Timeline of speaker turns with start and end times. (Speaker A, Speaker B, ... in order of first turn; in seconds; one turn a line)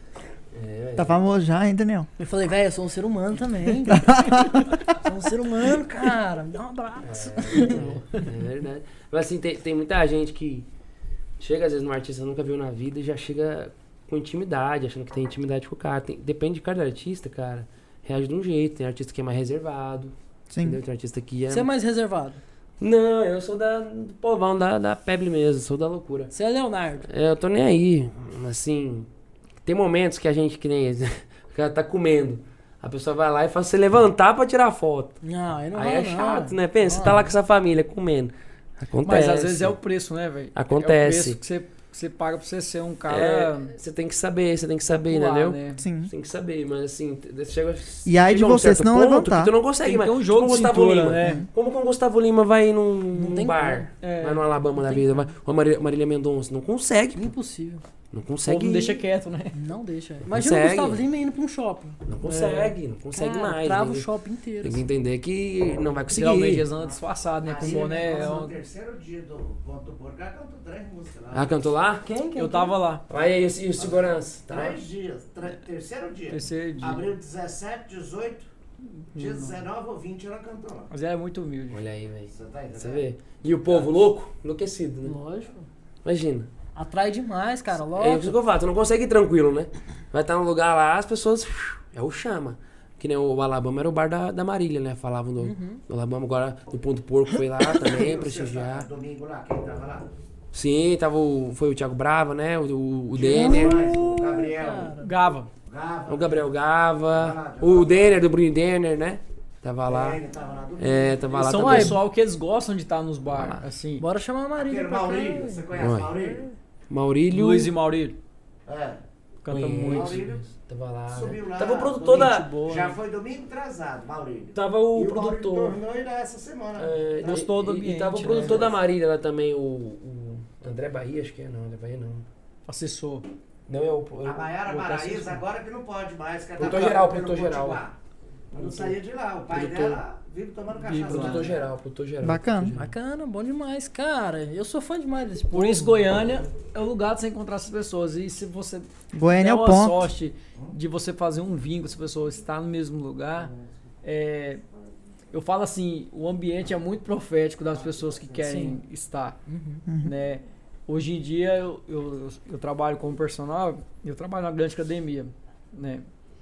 Speaker A: 0.5-1.2
Speaker B: 1.0-2.1
Speaker C: 2.2-8.2
Speaker B: 3.9-4.4
Speaker A: 7.0-10.7
Speaker A: 11.4-21.7
Speaker B: 20.5-20.8
Speaker C: 21.5-22.4
Speaker A: 22.8-26.3
Speaker C: 26.3-27.1
Speaker A: 27.1-29.1
Speaker A: 29.6-35.2
Speaker C: 35.2-37.3
Speaker A: 35.7-39.7
Speaker D: 39.0-43.7
Speaker A: 40.5-41.4
Speaker A: 43.1-57.3
Speaker D: 45.0-45.8
Speaker B: 45.8-46.1
Speaker B: 48.0-49.5
Speaker D: 49.8-51.5
Speaker B: 51.2-51.5
Speaker C: 53.1-53.9
Speaker D: 54.0-54.5
Speaker C: 54.8-55.2
Speaker C: 57.1-57.8
Speaker A: 58.1-59.0
Speaker D: 58.4-59.5
Speaker C: 59.5-64.9
Speaker A: 60.2-61.0
Speaker A: 62.1-64.1
Speaker D: 62.2-62.5
Speaker A: 64.6-66.7
Speaker D: 66.1-68.6
Speaker E: 66.8-71.7
Speaker C: 67.6-68.5
Speaker A: 71.3-72.0
Speaker C: 72.0-72.8
Speaker D: 72.4-73.0
Speaker A: 73.1-74.8
Speaker E: 73.8-78.5
Speaker D: 76.3-77.1
Speaker D: 79.1-79.6
Speaker E: 79.1-80.9
Speaker D: 80.9-81.8
Speaker A: 81.7-85.1
Speaker E: 82.3-83.0
Speaker E: 83.6-84.0
Speaker C: 85.0-85.7
Speaker A: 86.0-86.5
Speaker C: 86.7-88.3
Speaker A: 87.9-98.9
Speaker C: 95.4-95.8
Speaker E: 97.9-100.1
Speaker A: 100.5-104.0
Speaker E: 103.1-105.0
Speaker C: 103.3-105.1
Speaker D: 105.0-105.5
Speaker E: 105.7-106.5
Speaker A: 106.1-110.2
Speaker E: 107.1-108.2
Speaker E: 109.8-111.9
Speaker A: 110.8-112.0
Speaker D: 111.3-114.0
Speaker A: 113.3-113.6
Speaker C: 114.0-116.5
Speaker E: 114.6-116.5
Speaker A: 115.7-116.2
Speaker A: 116.9-117.7
Speaker D: 117.3-118.2
Speaker E: 118.7-119.0
Speaker D: 119.4-120.2
Speaker A: 119.5-122.6
Speaker E: 119.9-120.4
Speaker E: 121.1-127.4
Speaker D: 122.2-123.0
Speaker A: 124.5-125.8
Speaker A: 126.8-132.2
Speaker D: 127.2-128.7
Speaker E: 128.3-128.7
Speaker D: 132.7-133.2
Speaker A: 133.7-134.5
Speaker E: 134.2-137.9
Speaker D: 134.7-135.4
Speaker A: 136.6-137.8
Speaker E: 138.5-141.6
Speaker A: 138.6-139.0
Speaker A: 139.5-140.0
Speaker D: 140.8-141.5
Speaker A: 140.9-142.9
Speaker B: 142.2-142.8
Speaker C: 142.8-146.0
Speaker D: 145.5-153.5
Speaker B: 149.1-150.1
Speaker E: 153.4-153.7
Speaker D: 154.0-154.6
Speaker D: 155.3-159.4
Speaker E: 157.9-158.3
Speaker C: 158.4-158.8
Speaker C: 159.5-159.8
Speaker B: 159.9-160.1
Speaker D: 160.0-166.1